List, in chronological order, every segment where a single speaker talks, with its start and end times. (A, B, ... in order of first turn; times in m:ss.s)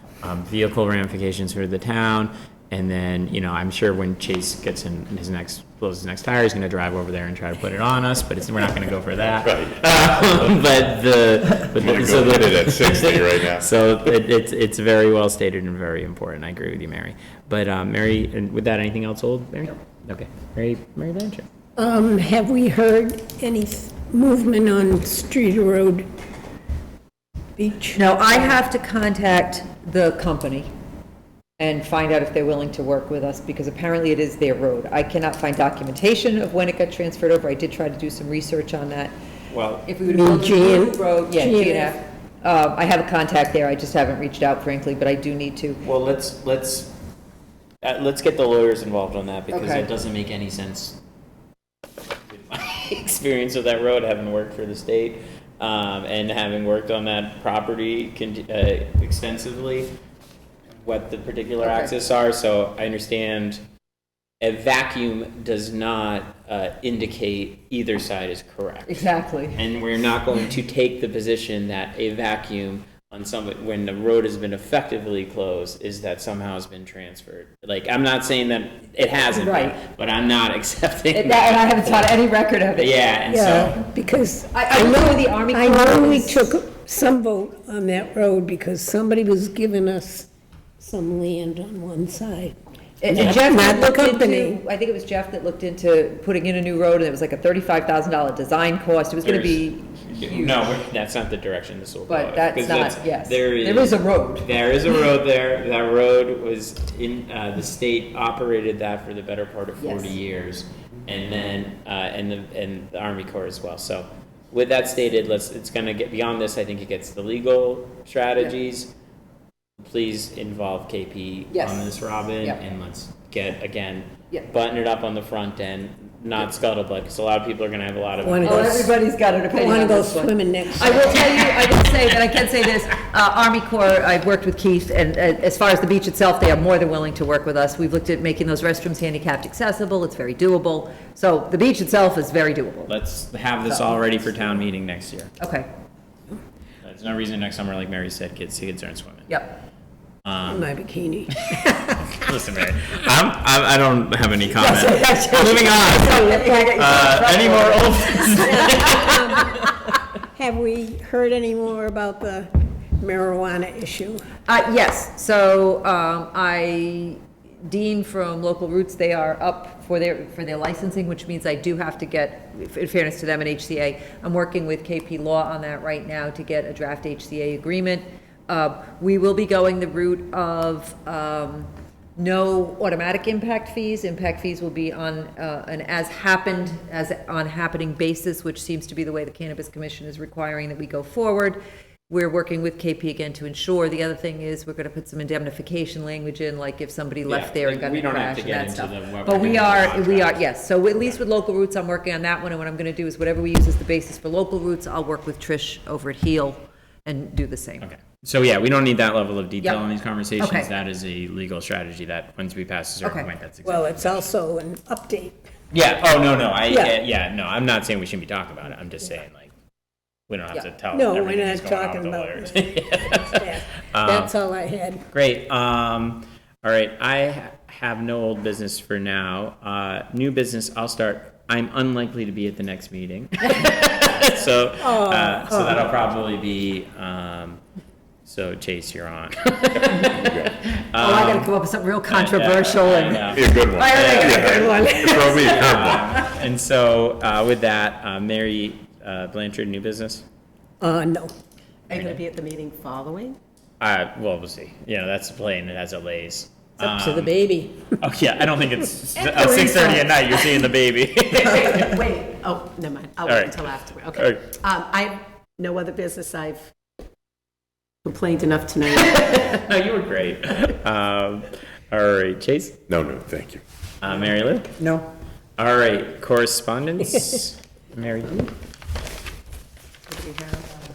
0:00.2-0:21.5 A
0:09.4-0:10.5 B
0:11.6-0:13.7 B
0:21.8-0:26.1 C
0:27.6-0:28.6 C
0:27.9-0:30.7 D
0:31.6-0:39.1 D
0:39.5-0:39.9 A
0:39.9-0:45.8 D
0:40.0-0:42.0 C
0:45.8-0:46.9 A
0:47.8-0:51.0 A
0:49.5-0:49.9 D
0:52.3-0:59.9 A
1:00.8-1:03.6 A
1:01.6-1:01.9 D
1:04.4-1:23.9 A
1:08.9-1:09.6 D
1:19.3-1:19.8 D
1:21.1-1:23.0 D
1:23.3-1:32.6 C
1:24.5-1:26.5 D
1:33.0-1:40.6 D
1:33.1-1:34.6 C
1:33.1-1:33.6 A
1:39.2-1:58.9 A
1:42.1-1:44.5 D
1:49.8-1:50.1 D
1:59.8-2:08.8 A
2:01.5-2:01.9 D
2:08.2-2:08.9 C
2:08.4-2:22.9 D
2:09.5-2:11.3 C
2:22.9-2:25.3 A
2:25.4-2:25.7 D
2:26.8-2:29.3 A
2:29.3-2:29.6 D
2:30.2-2:30.7 A
2:30.5-2:32.2 C
2:32.2-2:39.6 A
2:34.6-2:39.3 D
2:38.4-2:39.6 C
2:40.3-2:44.2 C
2:44.5-3:27.9 D
3:17.3-3:20.4 A
3:27.8-3:34.4 A
3:30.4-3:30.7 D
3:33.0-3:33.3 D
3:33.6-3:35.5 C
3:35.7-3:39.5 A
3:36.7-3:37.0 C
3:40.3-3:44.3 A
3:40.9-3:45.0 C
3:45.1-3:57.6 A
3:54.8-3:55.9 C
3:58.2-4:01.5 A
4:00.1-4:00.6 B
4:01.0-4:04.7 D
4:02.1-4:04.3 A
4:03.2-4:06.2 B
4:04.0-4:05.9 C
4:05.4-4:10.2 A
4:10.8-4:11.3 C
4:11.9-4:13.4 E
4:11.9-4:12.2 A
4:13.8-4:17.3 A
4:16.8-4:17.9 C
4:18.0-4:22.0 A
4:21.5-4:26.7 E
4:23.2-4:24.5 A
4:28.0-4:29.6 E
4:29.4-4:32.9 A
4:32.9-4:33.6 B
4:34.0-4:34.8 A
4:35.6-4:38.5 A
4:40.1-4:40.6 E